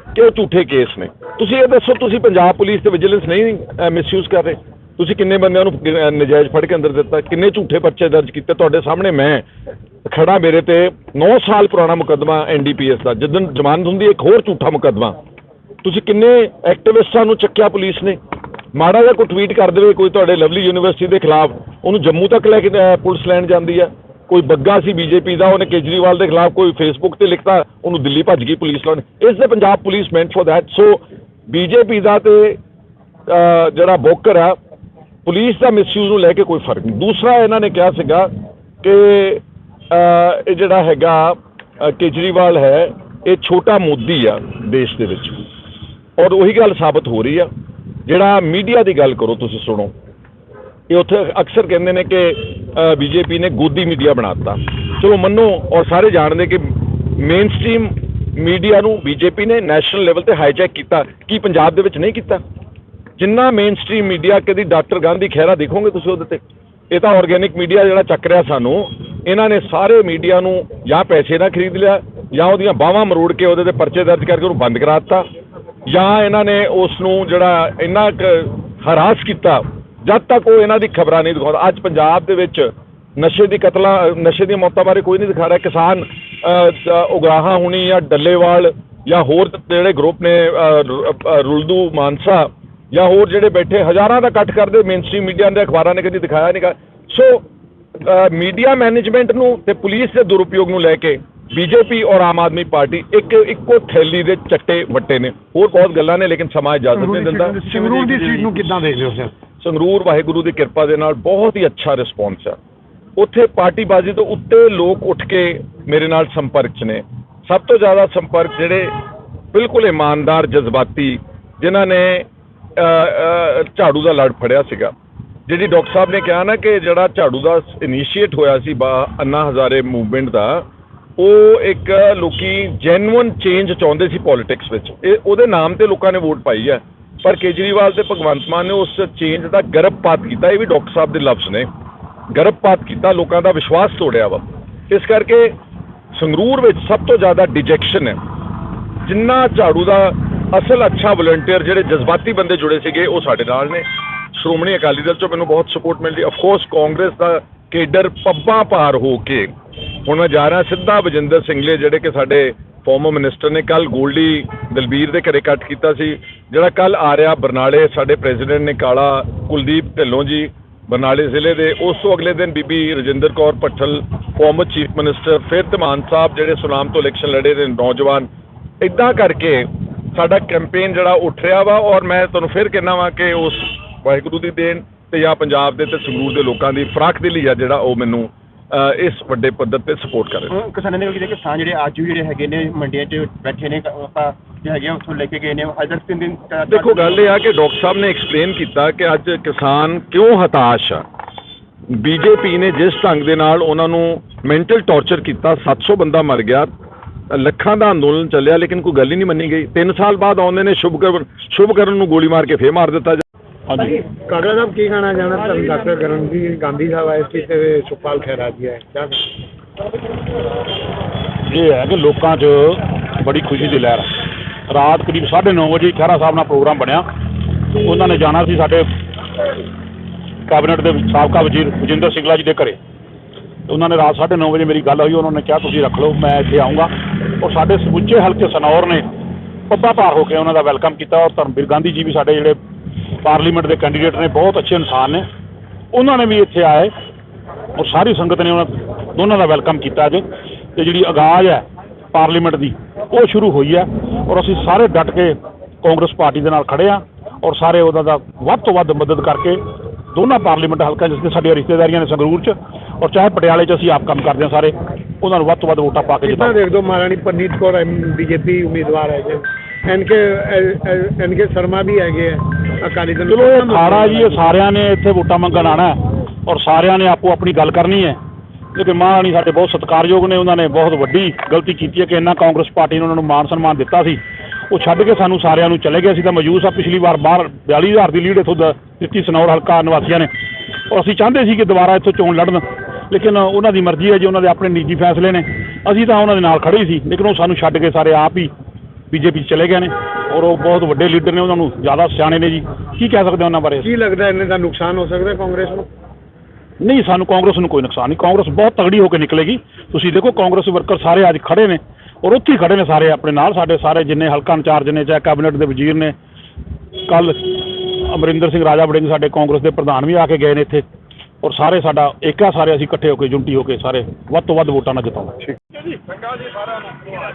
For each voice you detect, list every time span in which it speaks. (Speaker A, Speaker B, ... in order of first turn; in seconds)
Speaker A: 0.1-9.4, 10.1-15.2, 15.8-18.2, 18.7-32.6, 33.3-34.6, 35.2-38.3, 38.8-45.4, 46.2-47.5, 48.1-49.9, 50.9-62.4, 63.2-75.2, 75.9-97.5, 98.0-107.6, 109.6-112.6, 113.2-118.9, 119.5-124.9, 125.5-130.7, 131.2-141.7, 142.3-145.5, 146.1-148.2, 149.0-159.5, 160.1-178.3, 178.8-190.6, 196.7-201.0, 201.9-206.7, 207.3-213.2
Speaker B: 107.0-109.3, 214.1-219.2, 266.2-274.4, 303.8-305.9
Speaker C: 190.5-197.2
Speaker D: 213.7-214.0, 221.5-224.1, 224.7-228.9, 230.5-232.8, 233.7-239.1, 239.7-242.6, 243.2-245.2, 245.9-246.9, 247.8-250.2, 250.8-259.6, 260.1-266.6, 273.3-278.2, 278.7-290.3, 290.9-298.5, 299.1-303.9, 306.8-316.1, 317.1-320.8, 321.4-325.4